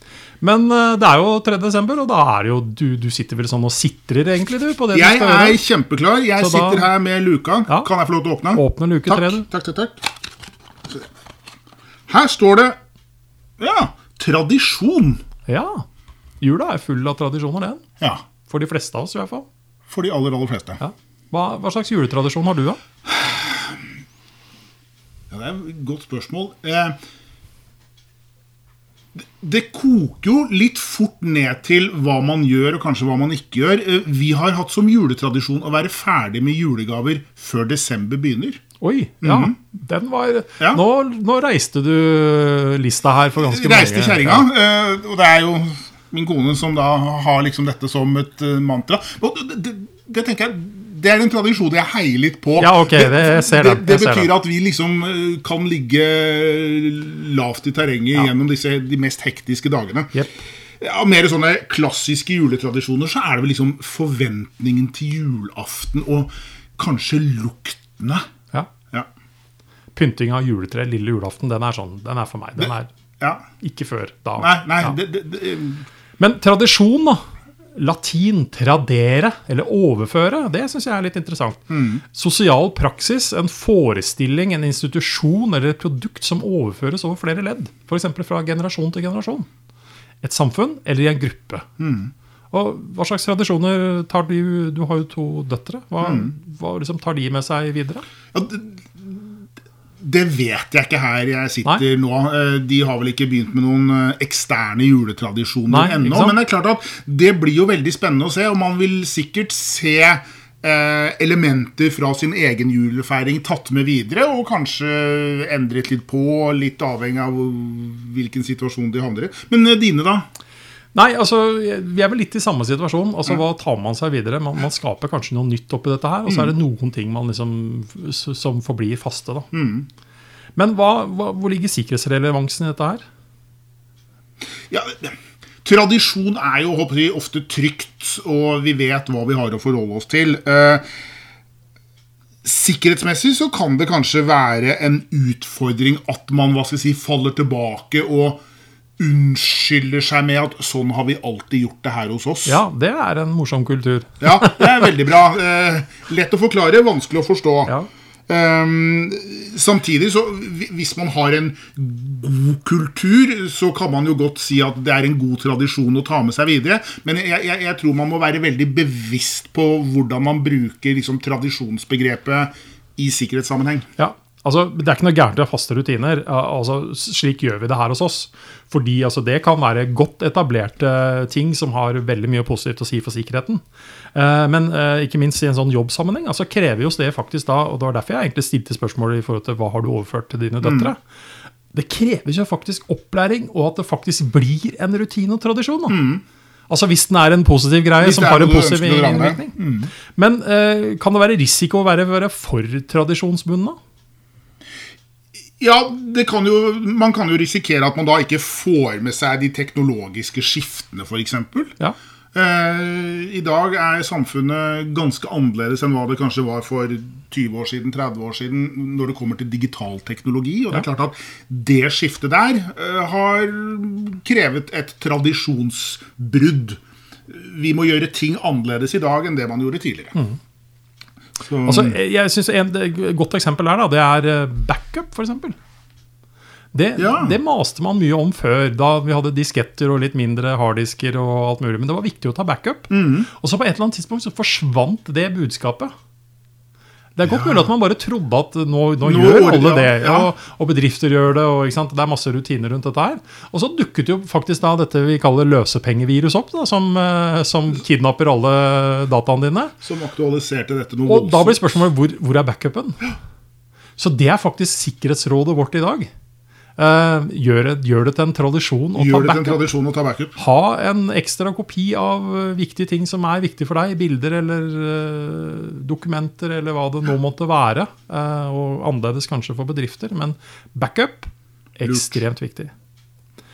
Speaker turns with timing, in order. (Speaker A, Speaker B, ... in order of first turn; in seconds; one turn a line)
Speaker A: 0.4-5.6
Speaker B: 4.9-10.0
Speaker A: 6.4-6.9
Speaker A: 8.5-9.5
Speaker B: 12.1-12.8
Speaker B: 13.6-15.2
Speaker A: 15.5-15.8
Speaker A: 16.4-17.8
Speaker A: 18.5-19.5
Speaker B: 19.9-20.8
Speaker A: 20.8-22.8
Speaker B: 23.1-23.8
Speaker B: 25.3-26.9
Speaker B: 29.2-38.6
Speaker A: 38.8-44.5
Speaker B: 39.2-39.5
Speaker B: 43.4-60.2
Speaker A: 52.6-54.3
Speaker B: 60.8-68.2
Speaker A: 70.0-72.9
Speaker B: 72.6-73.4
Speaker A: 73.6-75.0
Speaker B: 74.4-75.8
Speaker A: 76.2-77.2
Speaker A: 77.8-89.5
Speaker B: 81.7-82.0
Speaker A: 90.2-91.7
Speaker B: 91.8-92.1
Speaker A: 92.5-98.0
Speaker B: 96.0-96.3
Speaker B: 98.3-99.4
Speaker B: 100.0-120.3
Speaker A: 105.7-106.4
Speaker A: 120.9-129.5
Speaker B: 126.3-126.5
Speaker B: 129.5-129.9
Speaker A: 130.6-133.0
Speaker B: 134.7-140.8
Speaker B: 142.4-148.4
Speaker B: 149.0-152.6
Speaker A: 152.5-154.9
Speaker B: 154.2-157.8
Speaker B: 158.3-173.9
Speaker A: 174.0-183.6
Speaker A: 184.1-191.0
Speaker B: 190.6-190.9
Speaker A: 191.7-196.0
Speaker B: 195.9-196.2
Speaker A: 196.7-199.5
Speaker B: 198.0-199.9
Speaker A: 200.1-203.8
Speaker B: 205.6-211.8
Speaker B: 212.3-230.2
Speaker B: 231.5-232.0
Speaker A: 231.6-235.6
Speaker A: 236.7-245.9
Speaker B: 237.0-237.4
Speaker B: 242.9-243.3
Speaker A: 247.2-259.7
Speaker B: 247.3-247.7
Speaker B: 249.0-250.3
Speaker B: 259.8-261.8
Speaker A: 261.1-263.1
Speaker A: 264.0-266.1
Speaker A: 266.8-269.6
Speaker B: 269.0-270.4
Speaker A: 270.4-282.7
Speaker B: 281.8-282.2